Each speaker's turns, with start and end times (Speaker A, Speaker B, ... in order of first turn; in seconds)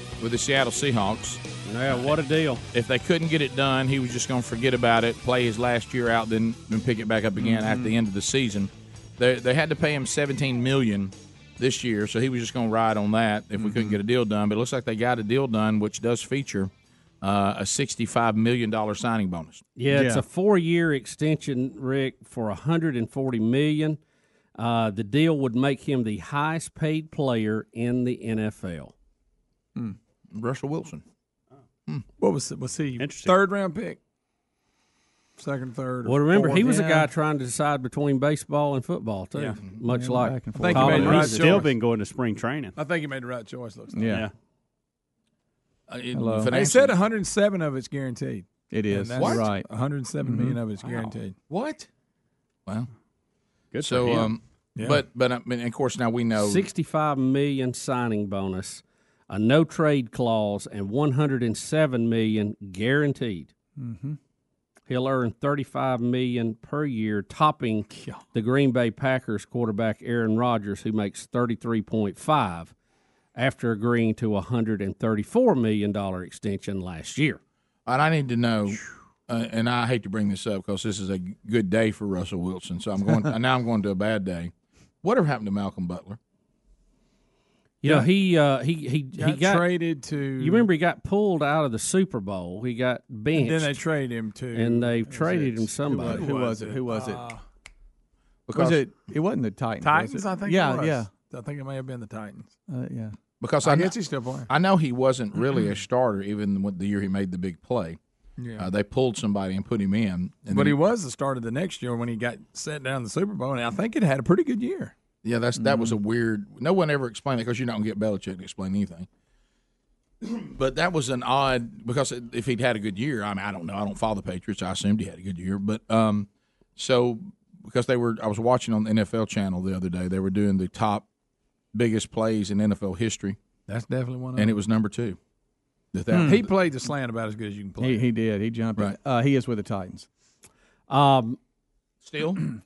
Speaker A: 0.2-1.4, 2.7-16.7, 17.2-19.6, 30.3-31.0, 45.9-47.0, 49.2-49.5, 51.5-51.9, 53.8-56.7, 77.8-84.5, 85.0-86.2, 98.5-98.8, 103.4-108.0, 108.6-110.8, 115.2-119.1, 120.2-131.1, 131.7-133.4, 134.3-135.2, 135.9-136.5, 142.0-142.4
Speaker B: 1.6-2.6, 19.8-24.0, 24.6-28.9, 36.0-41.6, 56.4-63.5, 64.9-72.7, 73.3-77.4, 87.8-89.7, 90.4-93.7, 94.5-96.2, 140.9-141.4
Speaker C: 7.4-7.9, 13.6-13.9, 19.9-20.2, 36.5-37.0, 39.9-41.3, 43.9-44.3, 46.1-46.5, 48.7-49.7, 50.2-50.6, 63.8-64.2, 95.9-97.3, 98.5-101.1, 102.7-103.2, 136.1-136.4, 137.8-140.1
Speaker D: 32.2-34.0, 35.4-36.9, 40.6-41.7, 42.8-44.2, 46.5-51.5, 54.8-55.0, 67.9-68.2, 89.1-90.7, 93.3-97.4, 99.8-102.6, 103.6-104.5, 108.4-108.7, 110.5-114.9, 133.7-134.5, 136.2-138.1
Speaker E: 33.0-33.4, 40.7-42.8, 44.1-44.3, 53.7-54.3